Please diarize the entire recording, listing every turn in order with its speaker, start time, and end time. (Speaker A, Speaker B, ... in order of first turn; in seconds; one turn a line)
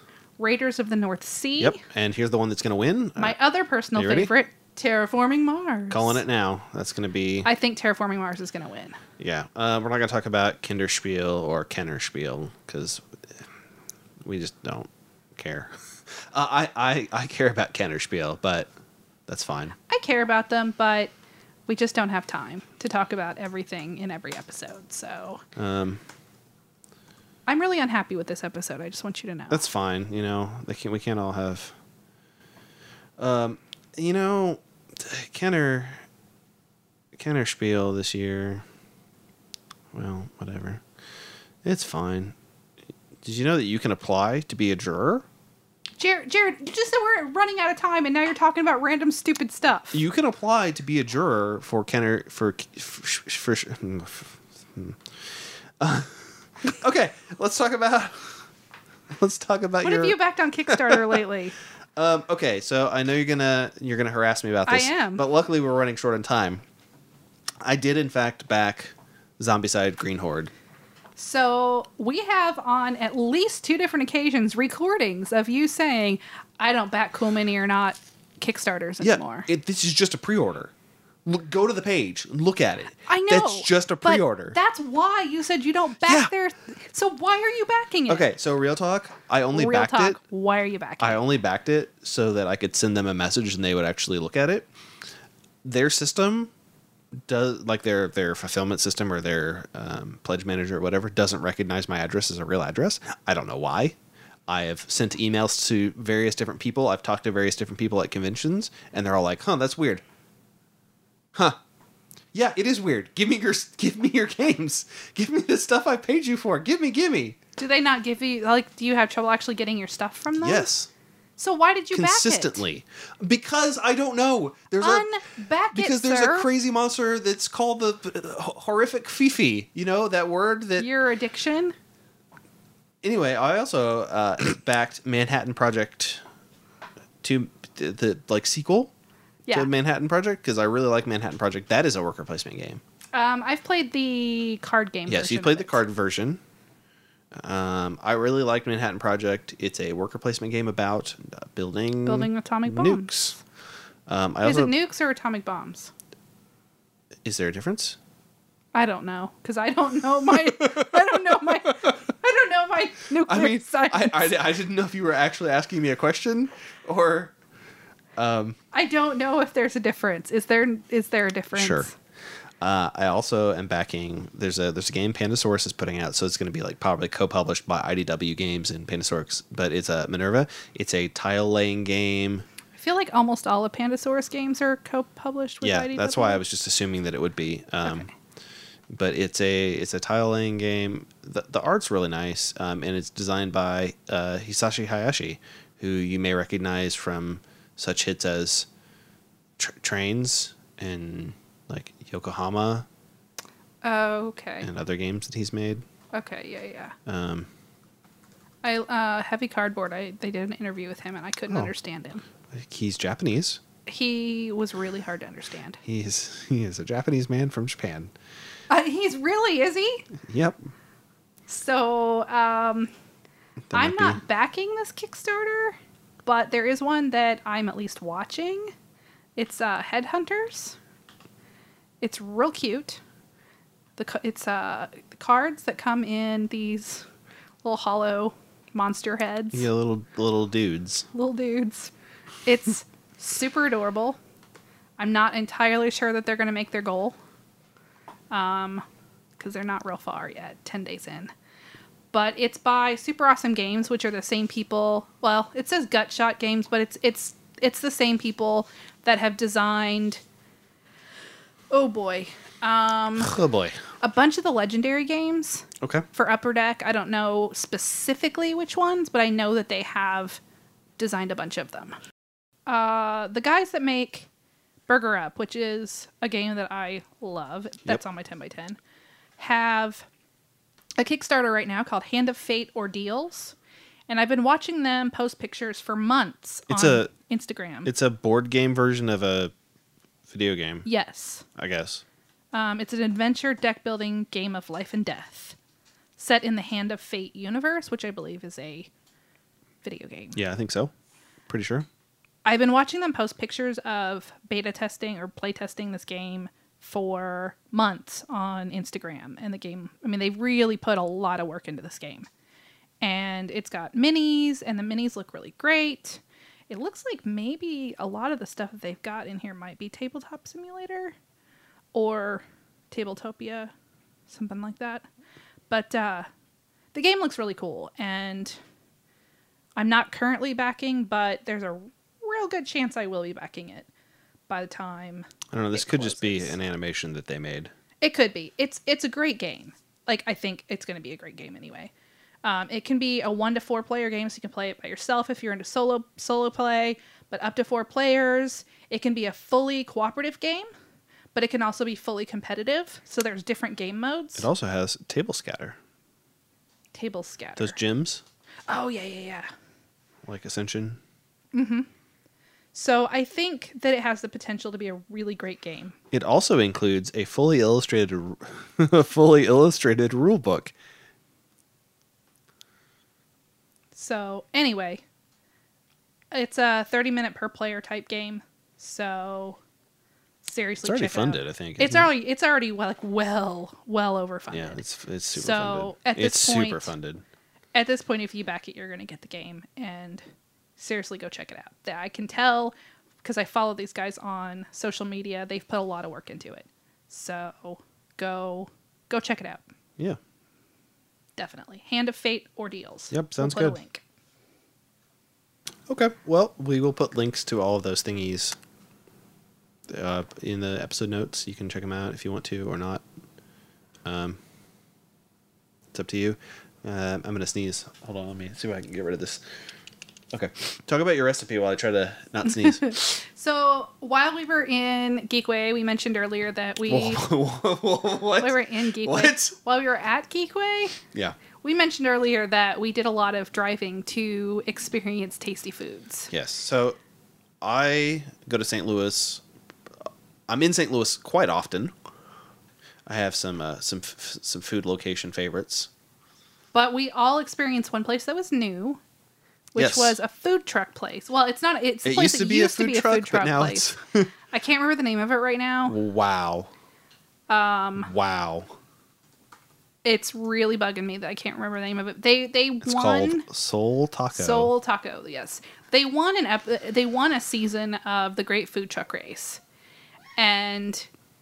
Speaker A: 0.4-1.8
Speaker B: 1.6-3.4
Speaker A: 3.2-6.2
Speaker B: 3.9-4.3
Speaker B: 5.9-7.5
Speaker A: 7.4-9.0
Speaker B: 9.2-13.0
Speaker B: 14.2-18.7
Speaker B: 19.3-19.8
Speaker A: 19.9-21.1
Speaker A: 21.7-25.4
Speaker B: 25.6-26.0
Speaker A: 27.5-29.6
Speaker B: 29.5-31.7
Speaker B: 33.2-36.0
Speaker B: 37.1-38.6
Speaker B: 39.9-40.8
Speaker B: 41.6-42.3
Speaker B: 43.2-45.2
Speaker A: 46.0-50.0
Speaker B: 49.9-55.0
Speaker B: 55.8-58.4
Speaker B: 59.1-61.2
Speaker A: 59.8-61.5
Speaker B: 62.0-66.6
Speaker A: 64.7-65.2
Speaker B: 67.6-70.5
Speaker A: 71.2-79.5
Speaker B: 79.0-80.7
Speaker B: 81.2-84.6
Speaker A: 83.1-88.3
Speaker B: 86.0-86.3
Speaker B: 88.1-90.2
Speaker A: 89.5-91.2
Speaker B: 91.0-94.7
Speaker B: 95.6-96.5
Speaker B: 97.3-104.0
Speaker B: 104.5-110.0
Speaker B: 112.3-117.4
Speaker A: 117.6-120.7
Speaker B: 120.4-120.9
Speaker A: 121.4-122.6
Speaker B: 121.9-125.1
Speaker A: 124.8-126.5
Speaker B: 125.7-130.9
Speaker A: 130.8-131.7
Speaker B: 133.0-136.2
Speaker B: 137.2-138.9
Speaker B: 139.5-142.8
Speaker A: 143.1-145.8
Speaker B: 145.1-146.4
Speaker B: 147.3-153.4
Speaker A: 152.0-153.1
Speaker B: 154.1-154.7
Speaker A: 154.4-155.9
Speaker B: 157.2-158.0
Speaker A: 158.7-164.3
Speaker B: 160.5-162.0
Speaker B: 163.2-167.3
Speaker B: 168.2-168.6
Speaker A: 168.7-171.9
Speaker B: 171.5-171.9
Speaker B: 172.6-182.4
Speaker A: 182.7-186.4
Speaker B: 185.6-188.1
Speaker B: 188.9-198.7
Speaker B: 199.6-202.8
Speaker A: 203.8-204.7
Speaker B: 204.6-205.8
Speaker A: 206.1-206.9
Speaker B: 207.1-207.5
Speaker A: 208.6-212.2
Speaker B: 212.5-213.6
Speaker A: 213.8-215.8
Speaker B: 215.8-218.1
Speaker A: 218.7-220.1
Speaker B: 220.2-220.6
Speaker A: 221.5-222.9
Speaker B: 223.7-224.2
Speaker A: 223.7-228.7
Speaker A: 229.3-230.8
Speaker A: 232.0-233.0
Speaker A: 234.0-237.0
Speaker A: 237.6-239.7
Speaker B: 239.5-241.1
Speaker A: 241.1-241.9
Speaker A: 242.4-244.2
Speaker A: 245.0-247.2
Speaker A: 248.3-248.8
Speaker A: 249.4-251.3
Speaker A: 252.1-260.2
Speaker A: 261.7-263.3
Speaker B: 263.2-263.8
Speaker A: 264.0-270.4
Speaker B: 265.8-266.1
Speaker A: 271.0-271.9
Speaker A: 272.7-274.3
Speaker A: 274.9-278.8
Speaker A: 279.4-280.1
Speaker A: 281.0-283.5
Speaker A: 284.1-287.9
Speaker B: 286.7-287.1
Speaker B: 287.8-289.5
Speaker B: 290.3-290.9
Speaker A: 290.8-291.4
Speaker B: 291.5-292.0
Speaker A: 292.5-295.6
Speaker A: 296.2-298.9
Speaker A: 299.8-300.4
Speaker B: 300.3-300.9
Speaker B: 301.5-301.9
Speaker A: 302.4-312.3
Speaker A: 313.0-321.1
Speaker A: 321.9-323.7
Speaker A: 324.3-325.1
Speaker A: 325.7-326.3
Speaker A: 326.9-328.6
Speaker A: 329.8-333.9
Speaker A: 334.5-336.6
Speaker B: 335.5-337.7
Speaker A: 338.0-341.9
Speaker A: 342.4-350.7
Speaker A: 351.3-354.5
Speaker B: 354.4-355.8
Speaker A: 356.9-357.8
Speaker B: 357.6-358.2
Speaker A: 358.7-359.5
Speaker B: 360.3-361.0
Speaker A: 361.5-361.9
Speaker A: 362.7-365.9
Speaker B: 366.1-370.7
Speaker A: 373.9-375.0
Speaker A: 376.3-379.6
Speaker A: 380.4-384.8
Speaker B: 380.8-382.1
Speaker B: 384.5-387.2
Speaker A: 385.3-386.9
Speaker A: 387.7-390.2
Speaker A: 390.8-399.6
Speaker A: 401.4-404.0
Speaker B: 403.1-403.8
Speaker B: 405.9-408.6
Speaker B: 409.9-413.0
Speaker B: 414.0-414.4
Speaker B: 415.9-419.4
Speaker B: 420.3-423.2
Speaker A: 422.6-427.2
Speaker B: 426.9-429.6
Speaker A: 428.4-431.0
Speaker A: 431.6-436.3
Speaker B: 436.3-437.0
Speaker B: 437.6-439.4
Speaker B: 440.5-441.9
Speaker B: 443.1-445.9
Speaker A: 446.7-449.0
Speaker A: 449.7-453.9
Speaker B: 449.8-450.2
Speaker B: 452.0-454.3
Speaker A: 454.5-455.9
Speaker B: 455.9-456.7
Speaker A: 457.5-458.1
Speaker B: 458.0-458.7
Speaker A: 460.0-463.4
Speaker B: 462.8-464.7
Speaker A: 464.3-469.6
Speaker A: 470.4-471.1